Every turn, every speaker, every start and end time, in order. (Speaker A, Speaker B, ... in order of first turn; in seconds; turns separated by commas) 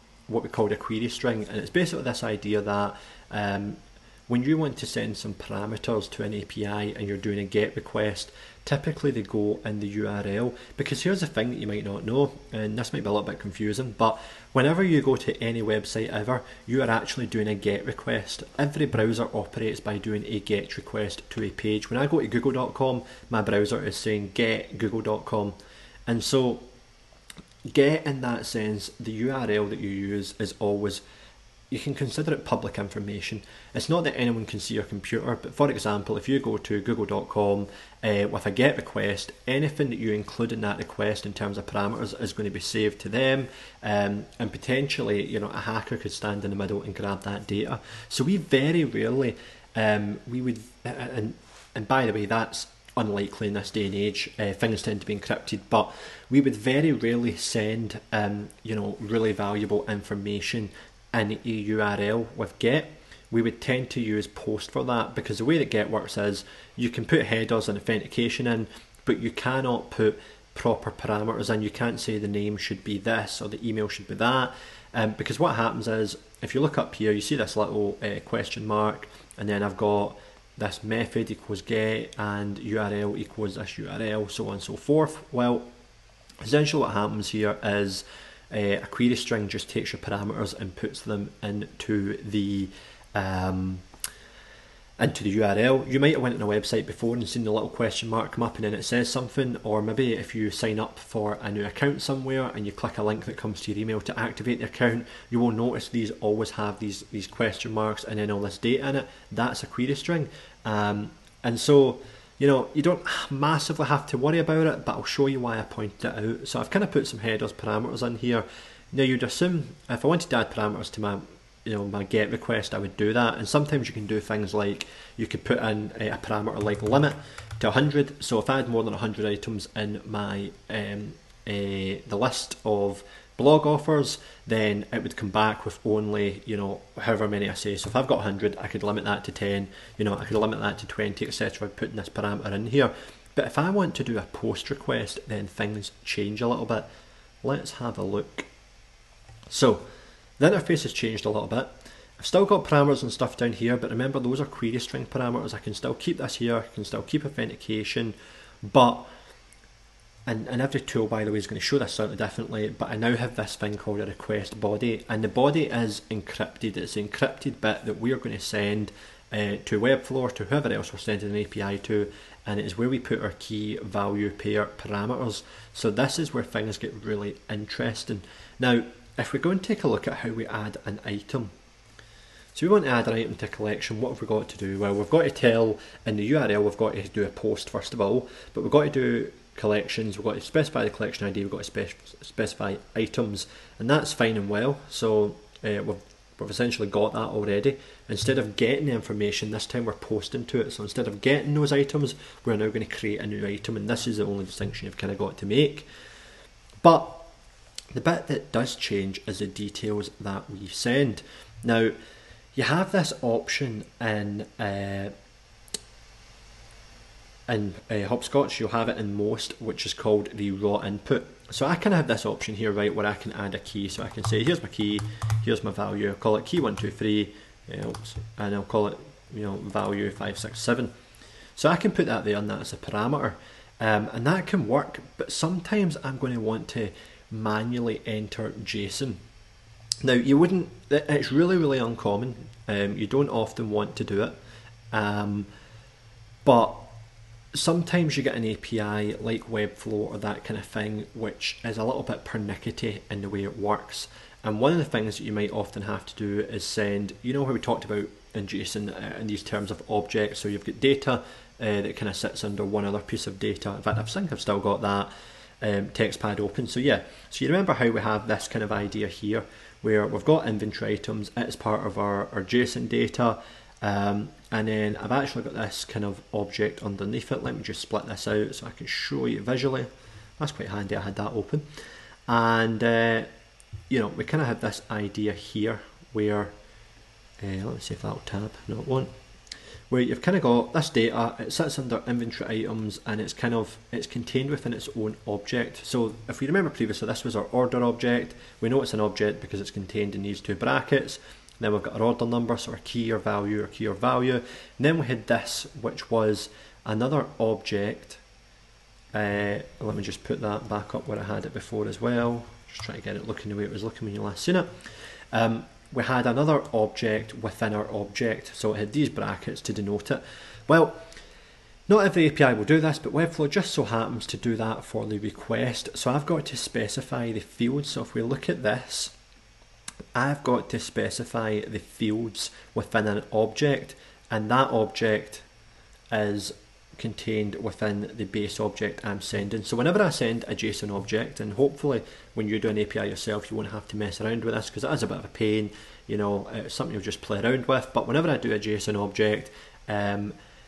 Speaker A: 0.3-25.6, Speaker A: 26.1-26.7, Speaker A: 27.6-31.0, Speaker A: 31.7-85.7, Speaker A: 86.4-93.8, Speaker A: 95.0-146.9, Speaker A: 147.4-148.5, Speaker A: 149.5-149.8, Speaker A: 150.4-159.1, Speaker A: 160.3-181.5, Speaker A: 182.6-205.9, Speaker A: 206.8-207.3, Speaker A: 207.9-211.9, Speaker A: 212.6-215.1, Speaker A: 217.5-230.9, Speaker A: 231.6-239.2, Speaker A: 240.0-244.4, Speaker A: 244.9-245.5, Speaker A: 246.4-246.9, Speaker A: 247.5-281.6, Speaker A: 282.3-283.3, Speaker A: 283.9-286.5, Speaker A: 287.4-289.1, Speaker A: 289.9-308.2, Speaker A: 309.1-314.7, Speaker A: 315.3-321.0, Speaker A: 321.9-329.1, Speaker A: 330.1-335.4, Speaker A: 336.1-350.4